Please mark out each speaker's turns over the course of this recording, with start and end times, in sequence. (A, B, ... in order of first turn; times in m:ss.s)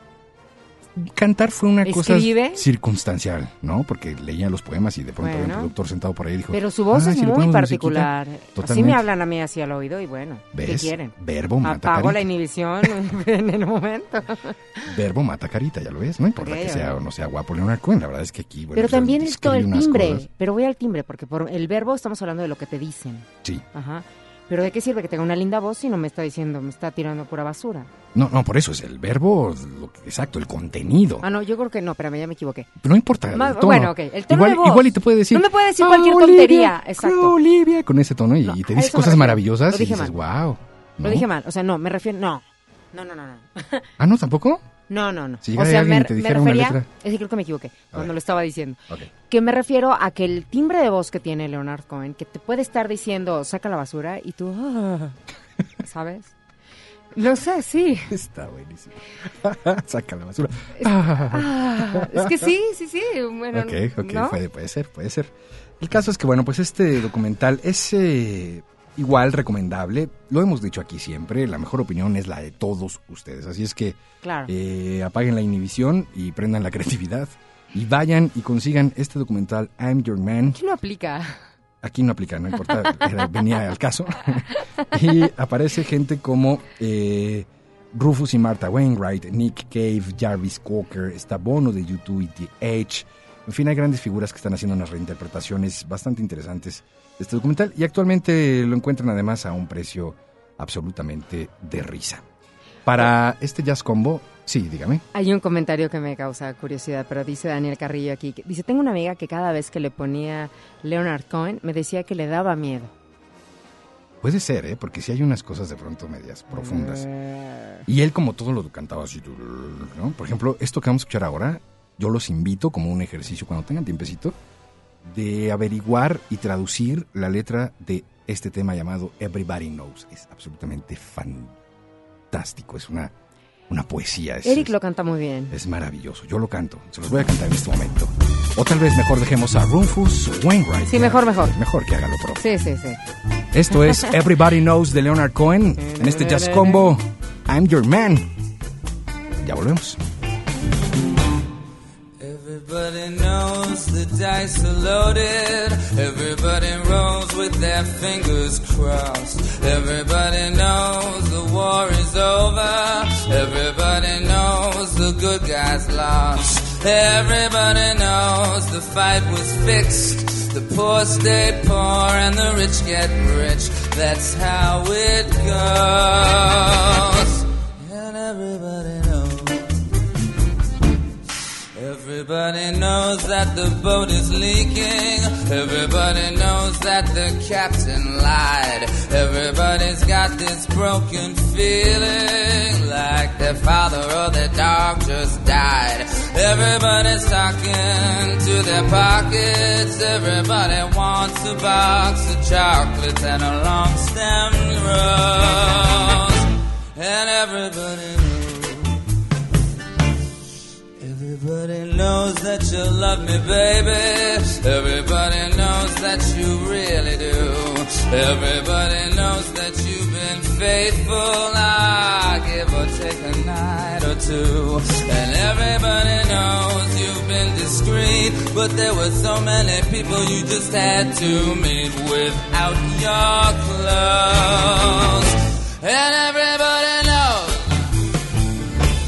0:01.0-0:09.0 A
0:01.8-0:02.6 B
0:05.2-0:05.7 B
0:06.5-0:14.9 B
0:10.5-0:12.2 A
0:14.8-0:20.2 A
0:16.4-0:17.0 B
0:18.7-0:27.9 B
0:28.1-0:31.2 A
0:31.2-0:32.7 B
0:32.8-0:41.2 A
0:33.3-0:37.4 B
0:38.4-0:40.2 B
0:41.0-0:43.8 B
0:44.0-0:44.6 A
0:44.9-0:55.2 B
0:45.4-0:46.9 A
0:55.8-0:56.3 B
0:57.1-0:58.1 B
0:58.1-1:02.5 A
1:00.8-1:04.4 B
1:03.5-1:20.6 A
1:14.2-1:14.5 B
1:20.5-1:21.4 B
1:21.8-1:42.2 A
1:42.8-1:45.0 A
1:45.1-1:52.9 B
1:54.2-1:57.1 A
1:56.5-1:57.5 B
1:57.8-2:04.4 A
2:05.0-2:11.5 A
2:12.3-2:13.1 A
2:13.7-2:14.7 A
2:14.4-2:15.6 B
2:15.5-2:22.4 A
2:20.9-2:21.5 B
2:22.4-2:23.0 B
2:23.5-2:28.3 A
2:25.8-2:26.9 B
2:29.4-2:30.0 A
2:32.2-2:59.7 C
3:01.7-3:29.0 C
3:31.0-3:57.9 C